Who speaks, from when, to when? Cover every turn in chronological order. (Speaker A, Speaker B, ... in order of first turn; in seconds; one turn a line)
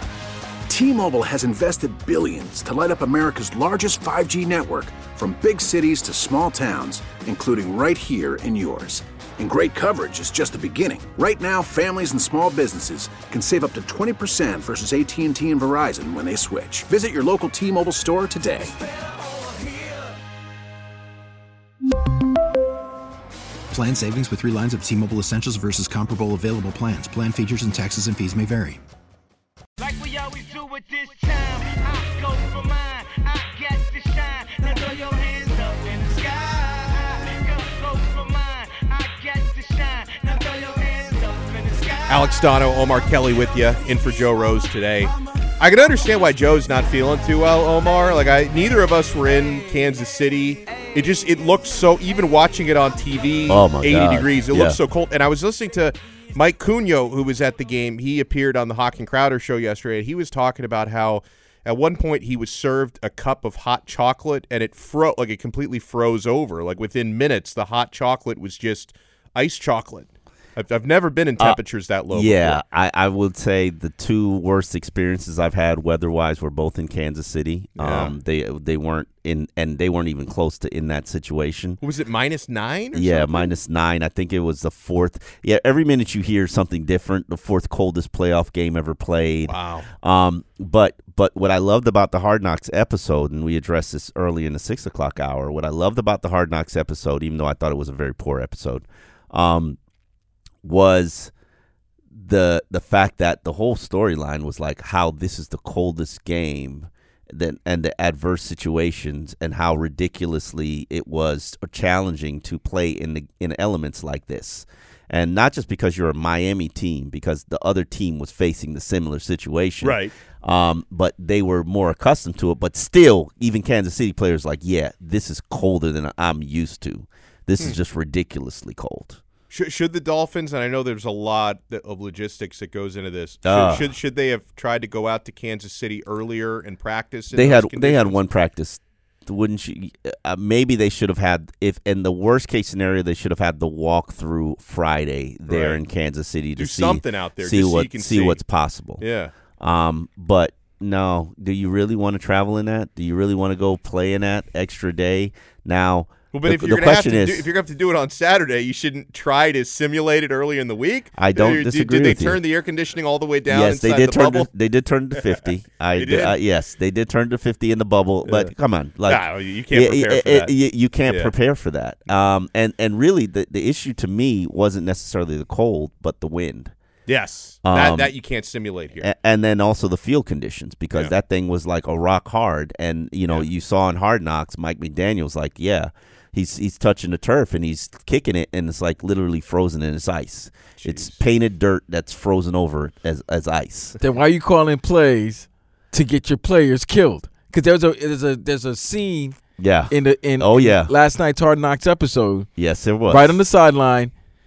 Speaker A: 0.7-18.7
Speaker B: 23.7-28.8
Speaker C: 29.8-41.9
Speaker D: 42.1-72.6
Speaker E: 53.5-54.8
Speaker E: 71.4-81.8
Speaker D: 77.8-78.2
Speaker D: 81.8-83.5
Speaker E: 82.9-99.8
Speaker D: 89.4-89.9
Speaker E: 100.6-101.3
Speaker E: 102.1-129.2
Speaker D: 119.8-120.1
Speaker D: 129.5-138.2
Speaker E: 133.4-133.9
Speaker E: 137.3-149.0
Speaker D: 145.5-145.8
Speaker D: 146.6-148.4
Speaker D: 149.0-149.3
Speaker E: 149.6-157.5
Speaker D: 156.3-164.5
Speaker E: 161.2-162.4
Speaker E: 163.5-176.7
Speaker D: 165.2-165.4
Speaker D: 166.0-166.4
Speaker D: 168.2-168.5
Speaker D: 169.0-170.5
Speaker D: 171.0-171.3
Speaker D: 177.1-179.1
Speaker E: 177.6-178.2
Speaker E: 179.0-193.9
Speaker D: 190.8-191.2
Speaker F: 194.0-202.5
Speaker E: 199.6-200.9
Speaker E: 202.6-203.4
Speaker F: 203.0-204.1